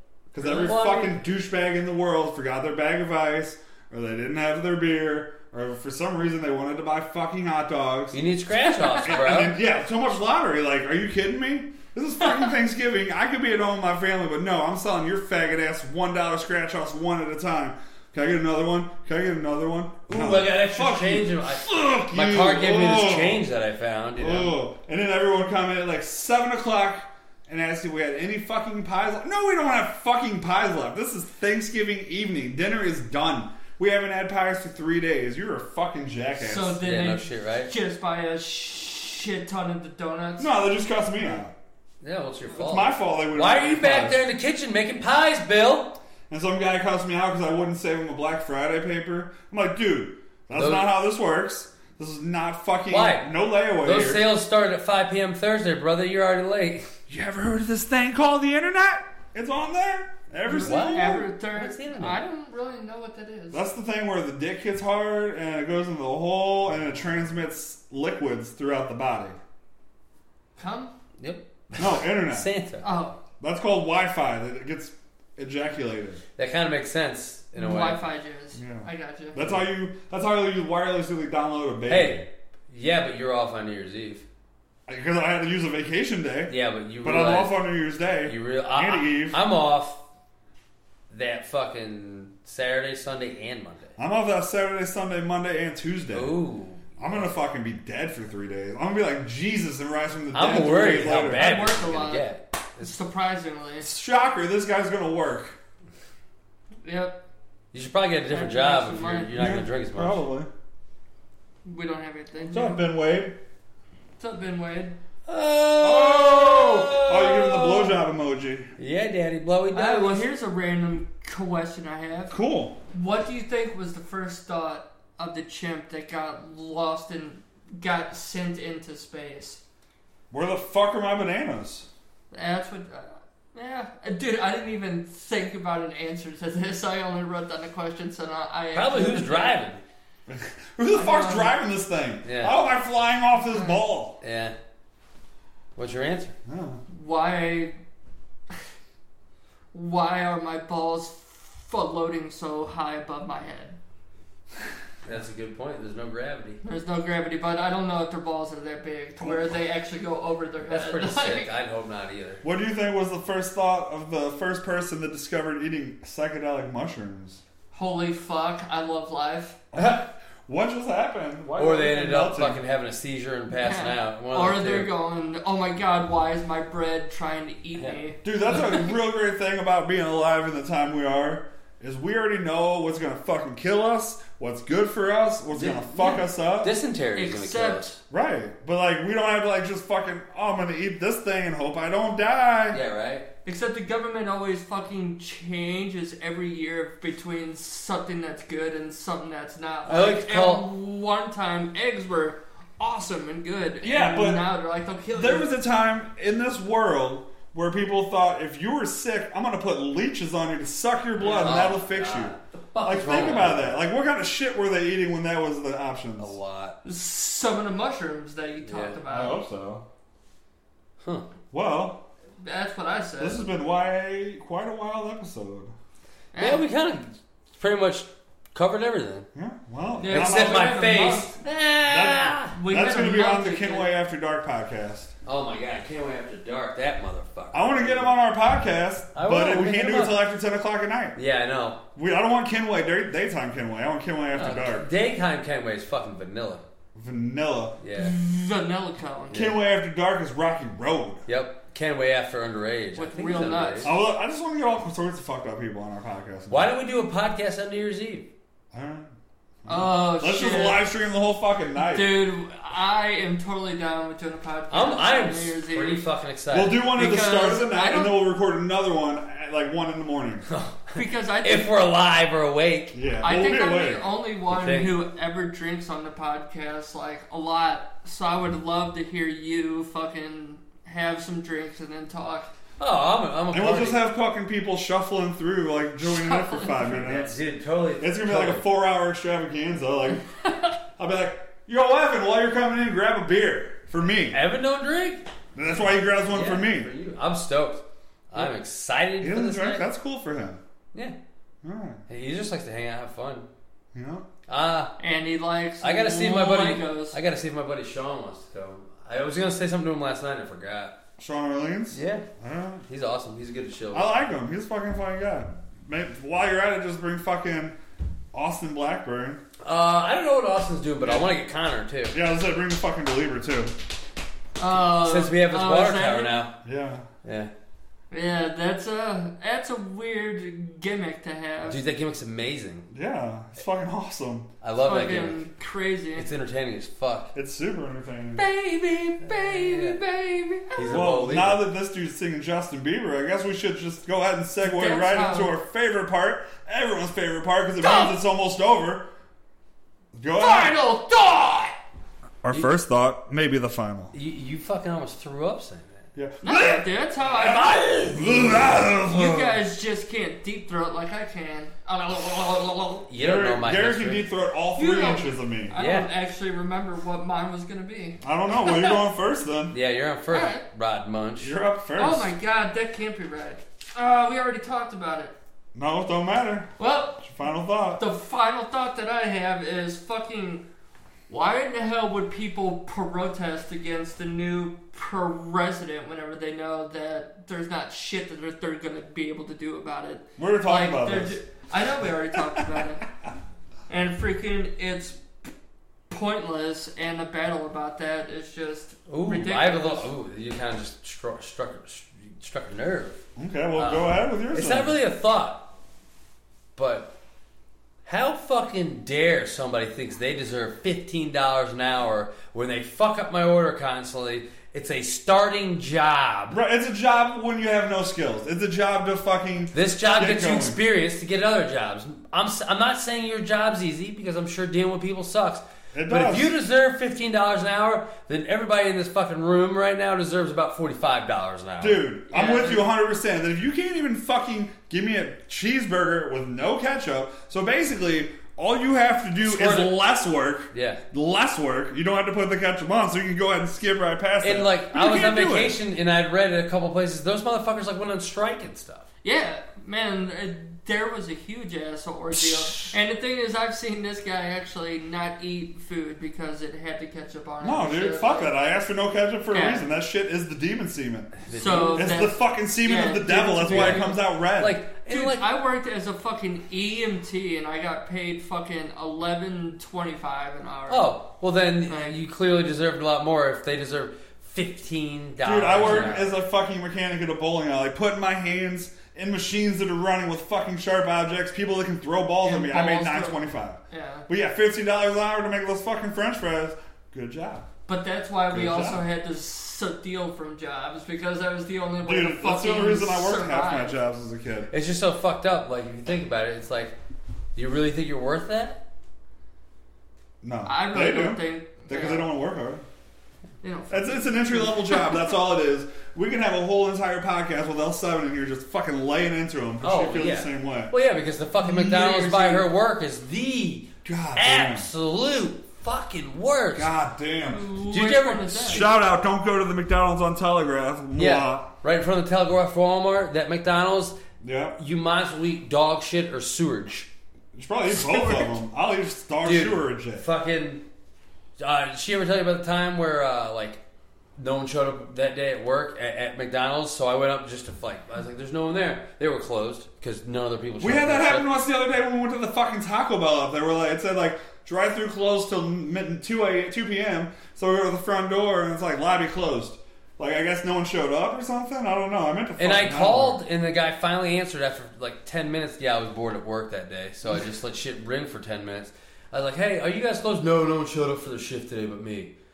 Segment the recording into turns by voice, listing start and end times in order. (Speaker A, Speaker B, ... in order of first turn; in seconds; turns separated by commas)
Speaker A: 0.3-8.2, Speaker B: 0.4-1.2, Speaker B: 8.1-9.6, Speaker C: 8.8-9.2, Speaker A: 9.0-23.4, Speaker B: 20.1-24.5, Speaker A: 24.2-36.8, Speaker C: 36.4-40.5, Speaker B: 36.8-37.7, Speaker A: 40.4-41.5, Speaker B: 42.0-46.0, Speaker A: 42.5-44.2, Speaker A: 46.3-54.3, Speaker B: 50.5-50.9, Speaker B: 52.9-56.9, Speaker A: 57.1-61.2, Speaker C: 60.5-63.6, Speaker B: 60.5-62.2, Speaker A: 63.5-69.4, Speaker C: 70.6-70.9, Speaker B: 71.2-72.9, Speaker A: 71.8-72.5, Speaker C: 72.8-73.2, Speaker A: 73.4-76.2, Speaker B: 76.4-78.0, Speaker C: 77.5-79.5, Speaker A: 78.5-82.3, Speaker B: 81.9-84.2, Speaker A: 84.9-89.4, Speaker B: 86.5-87.6, Speaker B: 88.2-90.0, Speaker B: 91.1-93.9, Speaker A: 94.0-96.3, Speaker B: 96.1-97.2, Speaker A: 97.0-101.4, Speaker B: 100.3-102.9, Speaker C: 101.3-102.3, Speaker C: 102.8-103.9, Speaker A: 103.8-105.6, Speaker C: 106.8-107.2, Speaker B: 107.7-110.2, Speaker C: 108.3-109.5, Speaker A: 109.3-110.5, Speaker C: 111.6-112.8, Speaker A: 112.5-113.4, Speaker C: 114.2-115.0, Speaker B: 115.3-117.9, Speaker A: 115.8-118.7, Speaker B: 118.8-120.2, Speaker C: 119.7-122.3, Speaker A: 122.3-122.8, Speaker C: 122.9-129.6, Speaker A: 130.3-131.9, Speaker C: 132.3-139.6, Speaker B: 138.7-139.8, Speaker A: 140.3-144.2, Speaker C: 140.9-141.5, Speaker B: 142.2-142.6, Speaker C: 143.5-143.8, Speaker B: 144.2-144.5, Speaker B: 145.8-146.3, Speaker A: 146.4-146.8, Speaker C: 146.9-147.8, Speaker C: 149.7-153.8, Speaker B: 155.0-156.6, Speaker C: 156.6-161.5, Speaker A: 159.2-159.6, Speaker B: 160.7-162.4, Speaker A: 162.4-167.4, Speaker C: 167.7-169.6, Speaker A: 169.7-172.6, Speaker B: 171.6-174.9, Speaker C: 173.6-178.8, Speaker A: 178.2-186.7, Speaker B: 185.5-188.0, Speaker C: 187.1-187.9, Speaker A: 188.1-192.8, Speaker B: 192.7-193.3, Speaker C: 193.4-205.5, Speaker B: 199.8-200.7, Speaker A: 203.8-204.4, Speaker A: 205.1-216.3, Speaker B: 211.2-213.8, Speaker B: 216.2-216.8, Speaker C: 216.8-219.5, Speaker B: 218.6-219.0, Speaker A: 219.1-219.8, Speaker B: 221.0-221.3, Speaker A: 221.5-222.0, Speaker C: 222.4-223.4, Speaker A: 223.2-225.7, Speaker C: 226.3-226.6, Speaker B: 226.4-229.3, Speaker A: 229.3-230.7, Speaker C: 230.0-231.3, Speaker B: 230.1-232.5, Speaker A: 231.8-235.1, Speaker C: 232.5-233.9, Speaker B: 235.2-238.2, Speaker A: 237.5-241.2, Speaker B: 239.1-240.2, Speaker B: 241.2-241.8, Speaker A: 241.9-244.8, Speaker B: 244.3-246.7, Speaker A: 246.9-247.8, Speaker B: 247.8-248.2, Speaker C: 247.9-249.5, Speaker A: 249.3-251.2, Speaker B: 251.3-253.9, Speaker C: 252.9-253.9, Speaker A: 253.8-256.7, Speaker B: 256.5-258.3, Speaker A: 258.7-262.2, Speaker C: 259.7-260.9, Speaker C: 261.8-266.0, Speaker B: 264.7-266.8, Speaker A: 266.5-270.5, Speaker C: 266.9-268.3, Speaker B: 270.5-273.0, Speaker C: 270.9-271.7, Speaker A: 272.9-274.1, Speaker C: 273.2-282.5, Speaker B: 274.5-275.0, Speaker B: 282.8-284.0, Speaker A: 283.5-287.4, Speaker C: 286.0-286.8, Speaker B: 286.7-288.6, Speaker A: 288.0-290.3, Speaker C: 290.4-290.7, Speaker A: 290.9-294.4, Speaker B: 294.3-295.3, Speaker A: 295.6-296.9, Speaker B: 296.3-299.9, Speaker A: 299.2-300.6, Speaker A: 301.6-302.0, Speaker B: 302.1-303.5, Speaker A: 303.9-304.2, Speaker B: 304.5-304.9, Speaker C: 305.0-307.2, Speaker B: 305.8-310.9, Speaker A: 311.2-312.9, Speaker B: 311.9-312.2, Speaker B: 312.9-314.1, Speaker A: 313.9-317.8, Speaker A: 318.3-319.4, Speaker B: 319.6-322.1, Speaker A: 322.1-323.7, Speaker C: 324.6-326.4, Speaker B: 324.7-326.6, Speaker A: 326.6-327.1, Speaker B: 327.2-327.5, Speaker C: 328.1-331.8, Speaker B: 331.6-332.9, Speaker A: 332.9-334.5, Speaker B: 334.6-335.4, Speaker C: 334.8-336.3, Speaker B: 336.1-337.3, Speaker A: 337.3-338.4, Speaker C: 338.4-341.0, Speaker B: 339.2-340.0, Speaker B: 340.7-341.7, Speaker A: 340.9-349.1, Speaker C: 344.6-345.5, Speaker C: 347.8-348.2, Speaker A: 350.1-350.8, Speaker C: 350.4-351.8, Speaker A: 352.4-354.1, Speaker B: 354.1-356.0, Speaker A: 356.1-359.6, Speaker C: 356.4-358.4, Speaker B: 357.4-358.8, Speaker C: 359.0-363.1, Speaker B: 363.1-364.3, Speaker A: 363.2-365.8, Speaker C: 364.8-369.0, Speaker B: 365.7-366.1, Speaker A: 368.2-369.7, Speaker B: 369.7-371.5, Speaker C: 370.3-370.6, Speaker A: 371.4-372.3, Speaker C: 372.0-375.3, Speaker A: 375.7-378.0, Speaker C: 376.8-377.3, Speaker C: 377.9-380.6, Speaker C: 381.3-393.0, Speaker A: 390.4-391.4, Speaker A: 392.3-392.6, Speaker C: 393.9-395.2, Speaker C: 396.1-400.1, Speaker B: 399.1-405.7, Speaker A: 403.4-405.0, Speaker B: 406.8-407.1, Speaker B: 408.1-416.6, Speaker A: 416.5-420.8, Speaker B: 419.7-432.0, Speaker A: 425.9-426.5, Speaker A: 431.8-445.8, Speaker C: 432.3-432.9, Speaker B: 439.4-440.1, Speaker B: 440.7-441.0, Speaker B: 444.4-449.1, Speaker C: 449.2-458.5, Speaker A: 457.6-461.4, Speaker C: 459.5-459.9, Speaker B: 461.4-462.1, Speaker C: 461.5-464.2, Speaker A: 461.9-464.8, Speaker B: 463.6-465.5, Speaker C: 465.1-471.1, Speaker B: 470.9-476.3, Speaker C: 471.9-472.2, Speaker A: 475.4-487.7, Speaker C: 475.8-476.1, Speaker C: 482.4-484.3, Speaker C: 487.9-494.0, Speaker A: 488.5-489.0, Speaker A: 492.0-494.7, Speaker B: 494.7-496.9, Speaker B: 497.5-498.8, Speaker A: 500.4-502.8, Speaker C: 500.6-502.3, Speaker C: 503.6-505.2, Speaker A: 503.9-510.9, Speaker B: 509.8-516.9, Speaker C: 511.6-512.7, Speaker A: 514.0-514.9, Speaker A: 516.7-517.7, Speaker C: 517.4-518.9, Speaker B: 517.9-518.9, Speaker A: 518.7-521.7, Speaker B: 521.1-524.1, Speaker A: 524.4-524.8, Speaker B: 524.8-527.1, Speaker A: 527.5-530.2, Speaker C: 527.9-528.5, Speaker B: 529.4-530.8, Speaker B: 531.6-533.8, Speaker B: 534.4-541.5, Speaker A: 540.8-553.4, Speaker B: 552.6-562.3